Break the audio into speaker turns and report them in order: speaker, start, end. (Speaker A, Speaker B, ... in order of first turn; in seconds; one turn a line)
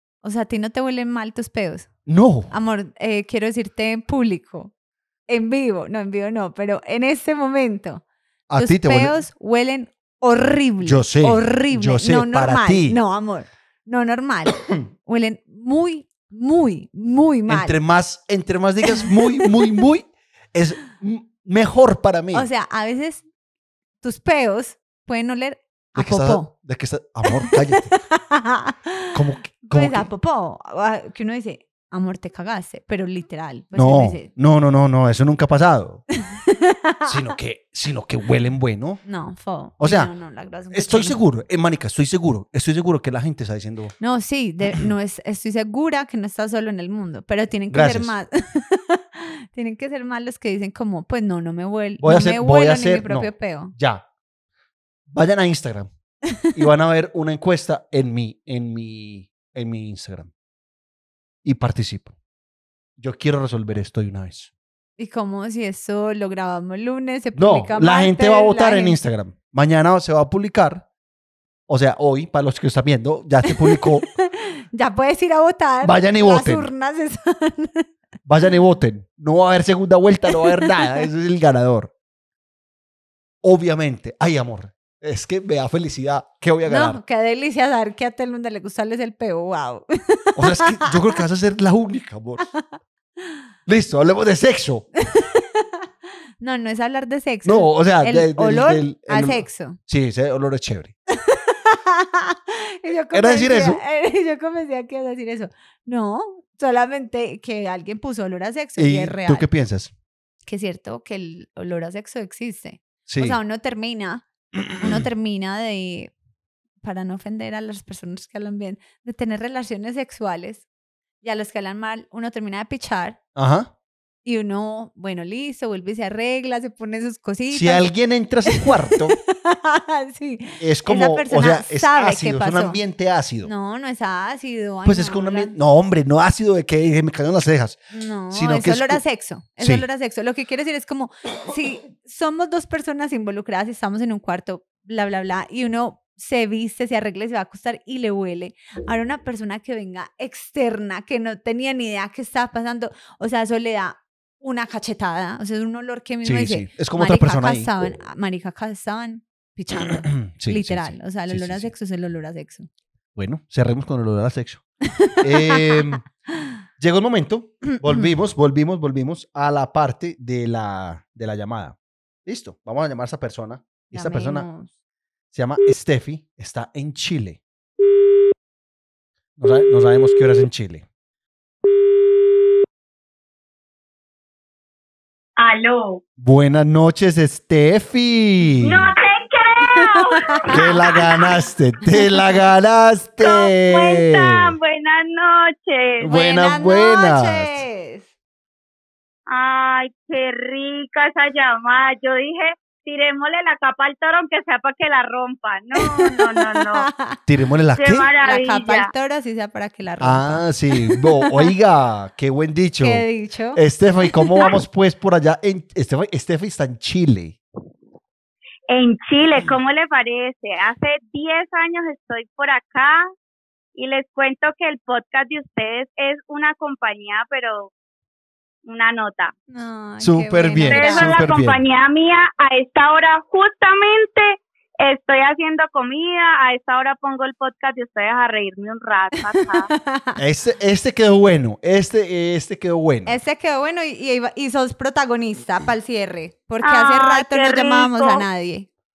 Speaker A: 0.2-1.9
Speaker B: 2.1-2.5
Speaker A: 2.5-4.7
Speaker A: 5.3-8.0
Speaker B: 8.5-9.2
Speaker A: 8.6-17.8
Speaker B: 10.8-13.0
Speaker B: 17.5-22.5
Speaker A: 18.9-19.8
Speaker A: 22.3-23.2
Speaker A: 24.0-26.5
Speaker B: 25.9-27.9
Speaker A: 27.3-34.3
Speaker B: 29.1-30.1
Speaker B: 33.8-36.0
Speaker A: 36.2-37.2
Speaker B: 37.1-39.0
Speaker A: 39.0-41.2
Speaker B: 39.8-40.1
Speaker B: 40.7-44.0
Speaker A: 44.0-53.7
Speaker B: 47.7-48.1
Speaker B: 52.0-54.0
Speaker B: 55.1-55.9
Speaker B: 56.5-60.3
Speaker B: 61.4-62.1
Speaker B: 63.0-64.5
Speaker A: 65.0-69.0
Speaker B: 67.3-70.9
Speaker B: 71.7-74.0
Speaker A: 73.5-77.9
Speaker B: 75.8-76.7
Speaker B: 78.3-81.9
Speaker A: 80.3-81.0
Speaker B: 83.4-87.0
Speaker A: 86.7-91.2
Speaker B: 90.4-92.5
Speaker A: 92.4-93.5
Speaker B: 93.7-94.9
Speaker A: 95.0-99.8
Speaker B: 97.5-101.0
Speaker A: 101.1-109.5
Speaker B: 103.1-103.8
Speaker B: 108.8-109.9
Speaker A: 110.5-116.1
Speaker B: 113.1-113.4
Speaker B: 114.6-115.0
Speaker A: 116.8-120.7
Speaker A: 121.2-123.2
Speaker B: 123.3-123.7
Speaker A: 124.2-127.9
Speaker B: 127.5-129.2
Speaker A: 128.5-132.8
Speaker B: 130.6-133.5
Speaker A: 133.4-135.6
Speaker B: 134.8-137.8
Speaker A: 137.9-162.7
Speaker B: 138.3-139.0
Speaker B: 139.6-139.8
Speaker B: 156.2-157.7
Speaker B: 159.8-161.7
Speaker B: 163.2-164.6
Speaker A: 165.0-166.0
Speaker B: 165.2-166.1
Speaker B: 166.8-174.5
Speaker A: 167.8-168.1
Speaker A: 173.9-174.7
Speaker B: 175.3-177.4
Speaker B: 179.4-180.9
Speaker C: 185.4-186.0
Speaker B: 186.2-188.9
Speaker C: 188.6-191.1
Speaker A: 189.7-191.0
Speaker B: 190.5-194.5
Speaker C: 193.2-196.1
Speaker B: 196.0-197.7
Speaker A: 196.1-198.1
Speaker C: 199.3-206.9
Speaker A: 205.8-207.2
Speaker B: 207.3-208.1
Speaker C: 207.8-208.9
Speaker A: 208.2-211.5
Speaker B: 210.0-213.0
Speaker A: 212.8-214.6
Speaker B: 213.6-217.4
Speaker C: 218.7-223.1
Speaker C: 223.8-227.7
Speaker C: 228.7-229.3
Speaker A: 229.5-231.3
Speaker B: 230.0-231.6
Speaker C: 230.7-239.7
Speaker A: 239.3-240.2
Speaker B: 240.2-243.2
Speaker A: 243.1-248.7
Speaker C: 246.6-248.2